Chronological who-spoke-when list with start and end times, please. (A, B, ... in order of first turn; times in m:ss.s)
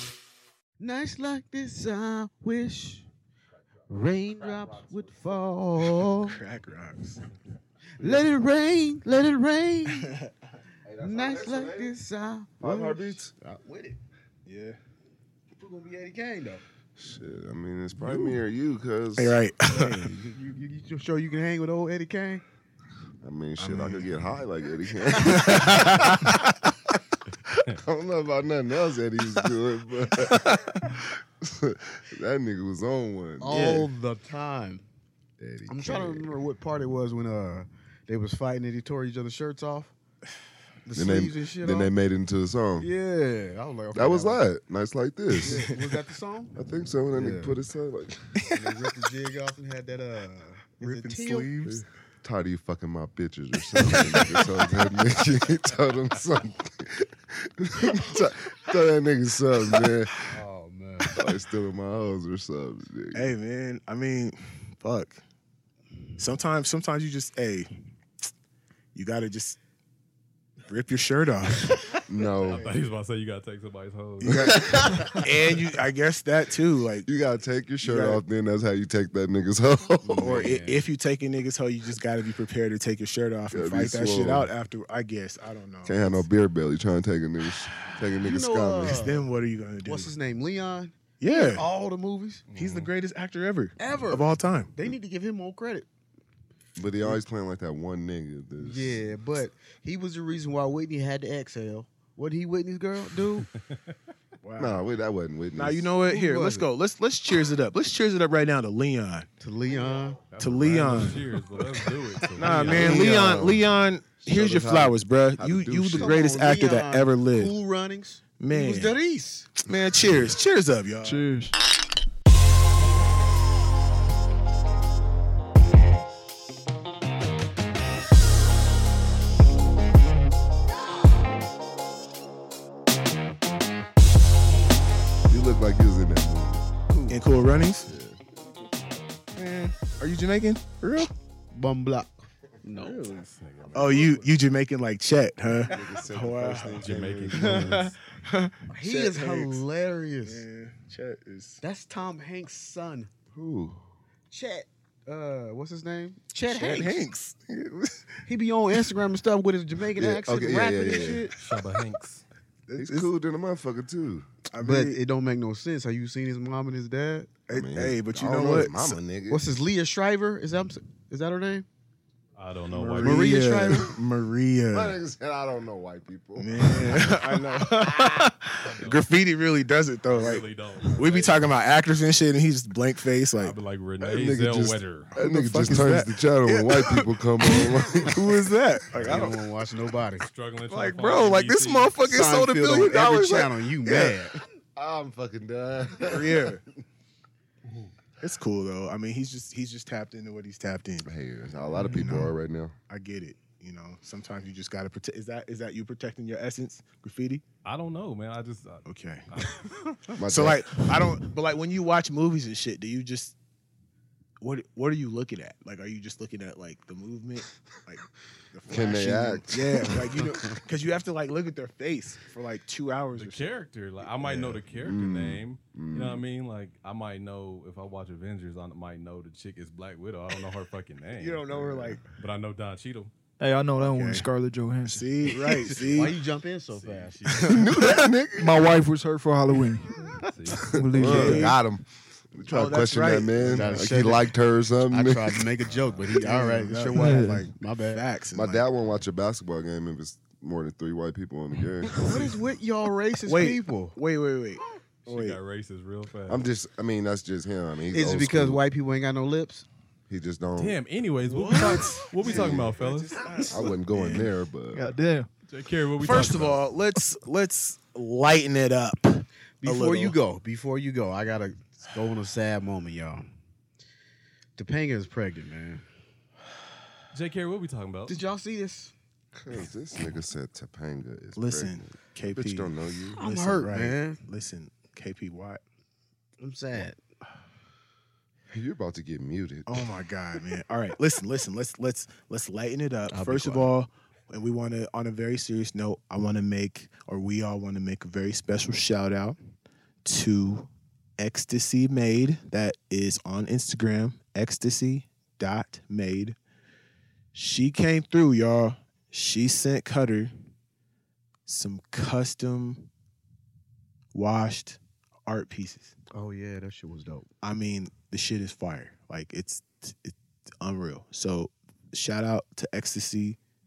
0:00.8-0:03.0 A
0:03.9-0:06.4 A
0:05.9-0:07.2 B
0:08.0-0:10.1 A
0:10.0-0:10.3 B
0:10.8-0:11.9 C
0:11.0-0:14.0 A
0:12.6-0:13.3 C
0:14.4-0:14.8 B
0:15.6-0:16.6 A
0:17.0-0:19.4 C
0:19.2-0:20.0 B
0:19.7-0:22.4 A
0:23.2-0:26.5 C
0:23.6-0:24.1 B
0:25.2-0:26.1 A
0:27.7-0:33.9 C
0:30.2-0:31.0 B
0:33.4-0:34.8 A
0:33.5-0:33.8 B
0:35.4-0:36.4 C
0:35.7-0:39.9 A
0:40.8-0:41.9 A
0:40.9-0:42.9 C
0:42.8-0:44.4 A
0:43.9-0:45.7 C
0:45.4-0:45.8 B
0:45.4-0:47.6 A
0:46.5-0:48.4 C
0:48.4-0:48.8 B
0:48.5-0:51.8 A
0:50.8-1:00.1 C
0:53.7-0:54.5 B
1:00.3-1:01.2 A
1:01.2-1:03.3 C
1:03.1-1:05.2 B
1:06.2-1:07.7 B
1:08.9-1:09.6 B
1:10.7-1:11.8 B
1:12.1-1:12.7 C
1:12.4-1:15.1 D
1:12.5-1:12.8 B
1:14.2-1:15.3 C
1:15.2-1:17.1 B
1:17.1-1:20.7 C
1:17.8-1:18.2 B
1:20.1-1:26.2 B
1:20.2-1:20.8 D
1:23.5-1:24.5 C
1:25.8-1:29.1 C
1:28.2-1:29.3 A
1:28.9-1:30.1 B
1:29.8-1:32.4 A
1:31.2-1:31.6 B
1:32.5-1:32.9 D
1:32.5-1:34.7 B
1:33.8-1:35.9 A
1:36.8-1:39.0 C
1:38.6-1:43.5 A
1:44.4-1:44.9 B
1:44.6-1:45.9 C
1:45.6-1:49.3 B
1:46.0-1:46.7 A
1:49.4-1:50.3 A
1:50.3-1:53.3 D
1:50.4-1:51.4 B
1:52.4-1:57.5 B
1:52.4-1:53.6 C
1:54.2-1:56.2 C
1:56.0-1:59.6 A
1:58.4-1:59.0 B
1:59.6-2:01.2 B
2:01.0-2:01.5 E
2:15.3-2:16.7 C
2:16.9-2:17.2 A
2:17.1-2:17.9 B
2:17.8-2:18.2 C
2:19.3-2:21.1 B
2:21.5-2:23.2 A
2:22.7-2:24.3 D
2:23.7-2:29.6 B
2:25.6-2:27.9 C
2:26.8-2:27.8 D
2:28.7-2:30.4 A
2:30.2-2:31.6 B
2:31.6-2:33.1 A
2:33.3-2:33.8 C
2:34.3-2:37.0 A
2:36.4-2:38.2 B
2:38.3-2:41.3 A
2:40.0-2:41.3 C
2:40.9-2:41.3 B
2:41.4-2:42.2 D
2:42.7-2:43.1 B
2:42.8-2:44.3 C
2:44.5-2:45.0 B
2:44.6-2:47.4 A
2:47.5-2:49.0 B
2:47.5-2:49.4 C
2:49.3-2:51.6 A
2:52.4-2:53.2 D
2:52.7-2:55.0 B
2:53.0-2:54.0 A
2:54.7-2:57.4 C
2:56.4-3:03.6 B
2:58.6-2:59.0 D
3:00.1-3:01.5 D
3:03.4-3:05.1 D
3:04.0-3:08.3 C
3:05.1-3:09.4 B
3:09.0-3:10.2 A
3:10.2-3:12.0 D
3:10.7-3:14.2 B
3:12.0-3:14.4 A
3:14.8-3:16.5 C
3:16.0-3:16.6 B
3:18.2-3:21.1 B
3:21.0-3:22.7 C
3:21.8-3:22.3 B
3:22.9-3:27.4 B
3:27.6-3:30.1 D
3:28.8-3:29.5 B
3:30.1-3:33.3 B
3:30.2-3:30.7 C
3:34.4-3:43.5 B
3:38.7-3:40.2 C
3:43.1-3:51.6 D
3:44.2-3:46.2 C
3:51.1-3:52.0 B
3:52.1-3:53.1 D
3:53.4-3:55.1 E
3:53.9-3:54.3 B
3:54.8-3:56.2 B
3:55.3-3:57.6 A
3:56.7-3:57.1 D
3:57.3-3:57.7 B
3:57.4-3:58.6 C
3:58.4-4:00.0 E
4:00.2-4:00.7 D
4:00.7-4:01.5 E
4:00.8-4:05.5 C
4:01.0-4:01.6 B
4:02.5-4:04.0 B
4:03.4-4:04.3 A
4:04.9-4:08.0 A
4:05.6-4:06.0 D
4:06.1-4:08.6 B
4:07.0-4:07.4 E
4:08.3-4:12.2 C
4:12.0-4:12.2 B
4:12.0-4:14.0 A
4:13.2-4:15.4 B
4:15.0-4:16.5 D
4:16.3-4:18.6 C
4:17.9-4:19.6 A
4:20.1-4:20.8 C
4:20.6-4:23.2 D
4:21.2-4:24.3 B
4:22.2-4:22.8 C
4:23.4-4:24.9 C
4:24.7-4:25.3 E
4:25.5-4:26.8 D
4:26.0-4:30.2 B
4:29.6-4:33.3 A
4:34.6-4:35.8 A
4:37.1-4:38.2 D
4:38.1-4:38.9 A
4:39.4-4:41.8 C
4:41.4-4:45.6 B
4:42.3-4:43.2 C
4:43.2-4:44.2 A
4:46.4-4:47.0 A
4:48.5-4:49.9 C
4:49.6-4:59.4 B
4:53.1-4:53.7 A
5:00.0-5:06.4 B
5:07.3-5:10.3 B
5:11.4-5:12.9 B
5:14.1-5:15.9 B
5:16.1-5:17.3 A
5:17.4-5:23.4 B